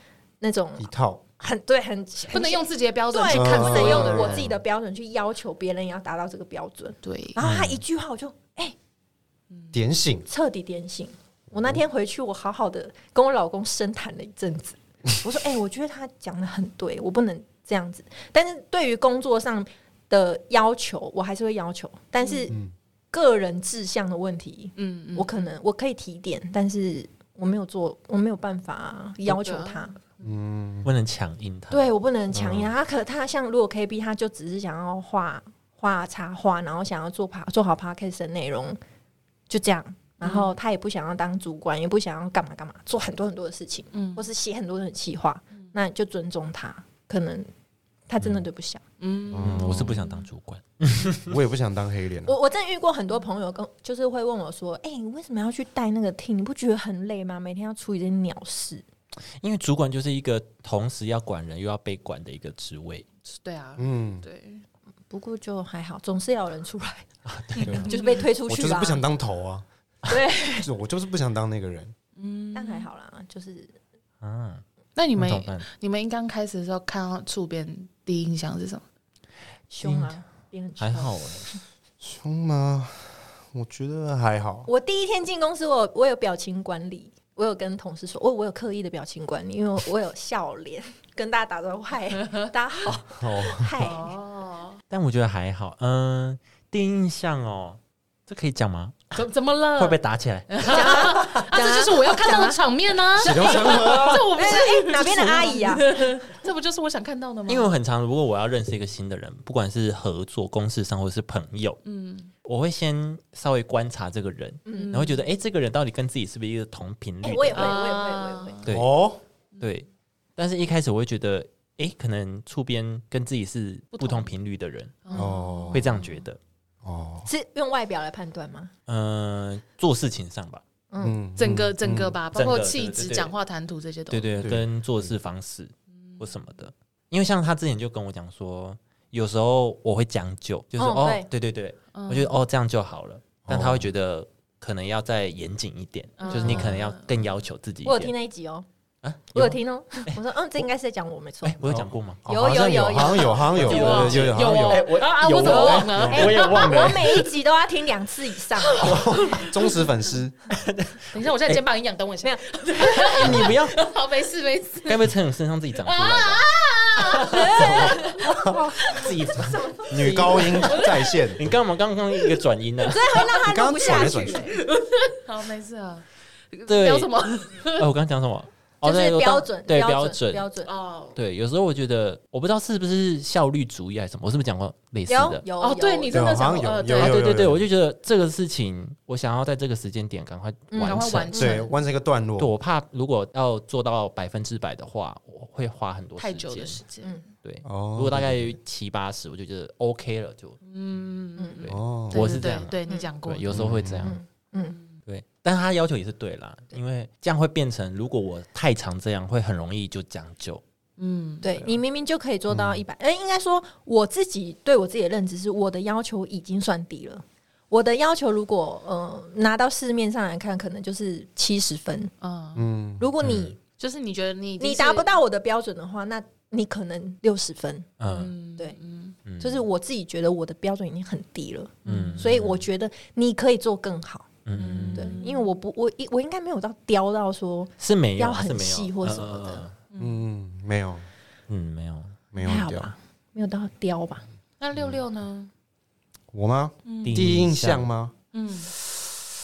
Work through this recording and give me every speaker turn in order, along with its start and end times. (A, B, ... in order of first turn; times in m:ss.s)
0:00.4-0:08.8 A
0:00.8-0:01.2 B
0:02.3-0:04.5 C
0:03.3-0:04.5 B
0:07.0-0:07.4 C
0:07.4-0:07.8 D
0:09.7-0:10.3 B
0:10.3-0:22.6 A
0:11.5-0:11.8 B
0:22.2-0:22.5 C
0:23.1-0:30.0 A
0:24.8-0:25.5 C
0:29.2-0:29.9 C
0:30.2-0:30.9 B
0:30.8-0:31.9 D
0:31.7-0:38.8 A
0:32.3-0:32.7 B
0:39.5-0:47.5 A
0:40.2-0:40.5 C
0:43.9-0:44.3 C
0:48.1-0:48.8 A
0:49.0-0:50.2 C
0:49.3-0:50.0 B
0:49.3-0:51.4 D
0:51.2-0:52.3 B
0:52.2-0:58.8 A
0:59.4-1:03.0 D
1:03.2-1:04.6 C
1:03.8-1:04.2 B
1:05.1-1:07.1 A
1:07.2-1:07.9 D
1:07.6-1:07.9 B
1:07.6-1:08.2 C
1:07.8-1:09.0 A
1:08.4-1:09.6 B
1:10.0-1:10.7 A
1:10.6-1:11.9 B
1:12.2-1:12.9 C
1:12.5-1:13.7 A
1:14.2-1:14.6 D
1:15.0-1:18.8 C
1:15.2-1:15.7 D
1:19.7-1:21.2 A
1:19.8-1:20.2 D
1:20.8-1:21.5 D
1:22.0-1:24.7 B
1:24.6-1:34.1 A
1:33.2-1:33.8 B
1:33.8-1:34.8 C
1:34.9-1:39.1 D
1:39.1-1:40.0 C
1:39.8-1:40.6 D
1:40.5-1:47.7 C
1:40.6-1:42.6 A
1:43.2-1:44.3 B
1:43.2-1:46.2 A
1:47.5-1:51.8 D
1:51.8-1:52.3 C
1:52.4-1:57.8 D
1:54.7-1:54.9 A
1:54.8-1:55.2 C
1:57.2-1:58.6 A
1:57.5-1:58.7 C
1:58.6-1:58.9 D
1:58.7-1:59.2 B
1:59.6-2:05.1 D
2:03.9-2:04.2 C
2:05.0-2:06.2 C
2:05.1-2:05.9 B
2:05.7-2:06.4 D
2:06.8-2:07.3 B
2:07.2-2:08.7 A
2:08.9-2:10.6 D
2:10.9-2:11.2 A
2:11.0-2:12.1 B
2:11.4-2:14.3 C
2:12.3-2:13.3 D
2:14.1-2:28.1 D
2:16.0-2:16.2 C
2:20.8-2:21.3 A
2:21.9-2:22.3 C
2:23.4-2:23.9 B
2:26.2-2:27.1 C
2:26.4-2:26.8 B
2:27.8-2:28.6 A
2:29.0-2:30.2 D
2:29.3-2:31.6 A
2:31.4-2:32.2 D
2:31.6-2:34.9 B
2:32.3-2:34.0 A
2:33.4-2:37.2 D
2:33.6-2:37.3 C
2:35.4-2:39.1 A
2:35.5-2:36.4 B
2:38.6-2:39.6 C
2:38.8-2:40.4 B
2:38.8-2:39.1 D
2:40.5-2:41.6 D
2:41.1-2:45.0 C
2:42.2-2:43.5 A
2:43.1-2:43.8 D
2:44.9-2:46.5 D
2:45.8-2:49.1 C
2:47.0-2:50.8 D
2:47.3-2:50.2 A
2:49.9-2:51.4 B
2:50.6-2:51.2 C
2:51.4-2:53.2 D
2:52.8-2:54.6 A
2:53.3-2:54.5 B
2:54.5-2:57.8 C
2:56.7-2:57.1 D
2:57.8-3:00.5 D
2:58.8-3:00.7 A
3:00.6-3:01.2 C
3:01.2-3:05.4 D
3:05.1-3:06.2 A
3:05.6-3:07.2 C
3:06.1-3:07.6 B
3:06.9-3:11.4 D
3:10.7-3:11.6 A
3:10.8-3:11.7 C
3:11.4-3:12.5 B
3:12.4-3:16.8 D
3:16.2-3:17.2 C
3:17.4-3:20.6 D
3:17.6-3:18.6 B
3:20.6-3:23.5 C
3:21.6-3:24.2 D
3:21.6-3:22.4 B
3:23.5-3:24.2 B
3:23.9-3:24.8 A
3:24.7-3:25.0 C
3:25.0-3:30.6 D
3:31.0-3:31.6 C
3:31.4-3:42.1 A
3:32.5-3:32.8 B
3:42.2-3:42.6 C
3:42.5-3:43.1 B
3:43.0-3:43.6 A
3:43.2-3:43.6 D
3:43.8-3:45.1 C
3:44.6-3:47.9 A
3:48.0-3:48.3 D
3:48.1-3:49.2 C
3:49.2-3:49.6 D
3:49.4-3:54.3 A
3:51.8-3:52.2 C
3:51.8-3:52.6 D
3:54.4-3:55.2 D
3:54.6-3:55.4 C
3:54.9-3:59.7 A
3:57.8-3:59.7 D
3:59.9-4:00.2 C
4:00.0-4:01.1 B
4:01.5-4:02.2 D
4:02.3-4:02.9 B
4:02.4-4:04.2 A
4:04.6-4:05.5 C
4:06.3-4:08.1 B
4:06.8-4:07.3 C
4:07.0-4:07.9 D
4:08.3-4:08.7 C
4:08.7-4:09.1 B